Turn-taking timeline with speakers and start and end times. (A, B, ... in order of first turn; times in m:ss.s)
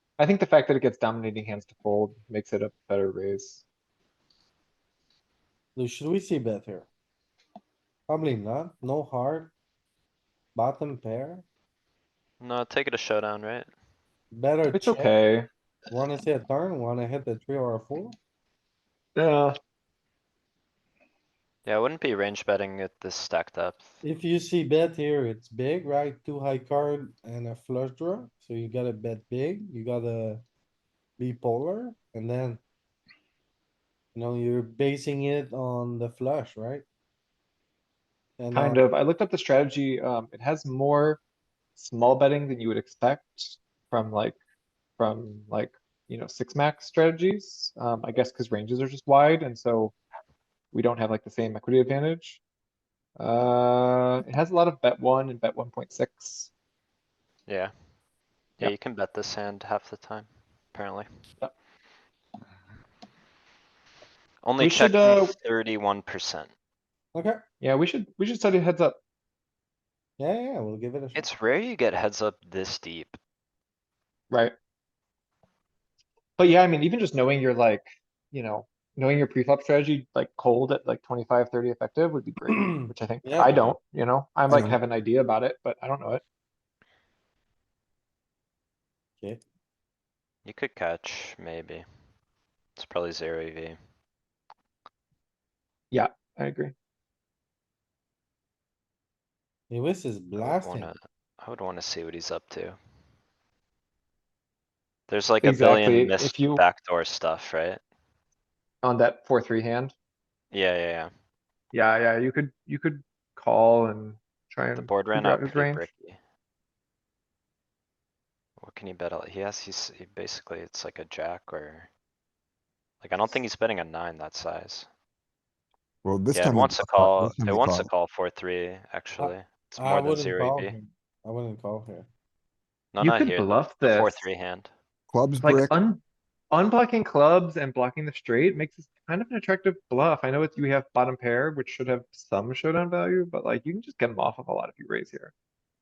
0:00.2-0:03.6 A
0:05.8-0:06.9 B
0:08.1-0:09.5 B
0:10.6-0:11.4 B
0:12.4-0:13.7 C
0:14.3-0:15.1 B
0:14.7-0:15.5 A
0:15.9-0:18.2 B
0:19.2-0:19.6 A
0:21.6-0:24.0 C
0:24.0-0:30.4 B
0:31.2-0:32.6 B
0:34.2-0:36.8 B
0:38.4-0:38.8 B
0:38.5-0:41.2 A
0:41.8-0:44.4 A
0:45.0-0:50.0 A
0:50.7-0:52.4 A
0:53.2-0:56.5 A
0:57.5-0:57.7 C
0:58.6-1:01.1 C
1:04.4-1:06.5 C
1:04.6-1:05.4 A
1:07.1-1:07.4 B
1:07.6-1:09.0 A
1:10.2-1:11.3 B
1:11.1-1:13.2 C
1:16.4-1:26.2 A
1:23.2-1:23.6 B
1:30.4-1:31.8 C
1:32.8-1:33.8 C
1:35.9-1:36.7 A
1:39.7-1:40.9 B
1:40.4-1:42.8 C
1:45.1-1:47.8 C
1:45.4-1:46.6 A
1:48.8-1:49.9 A
1:50.5-1:51.1 C
1:51.7-1:55.9 A
1:54.8-1:56.2 C
1:58.6-2:01.9 C
2:03.0-2:04.9 C
2:06.0-2:07.9 D
2:06.3-2:10.8 C
2:09.2-2:12.1 B
2:12.9-2:14.7 C
2:13.0-2:14.3 A
2:15.1-2:15.8 D
2:15.4-2:25.3 A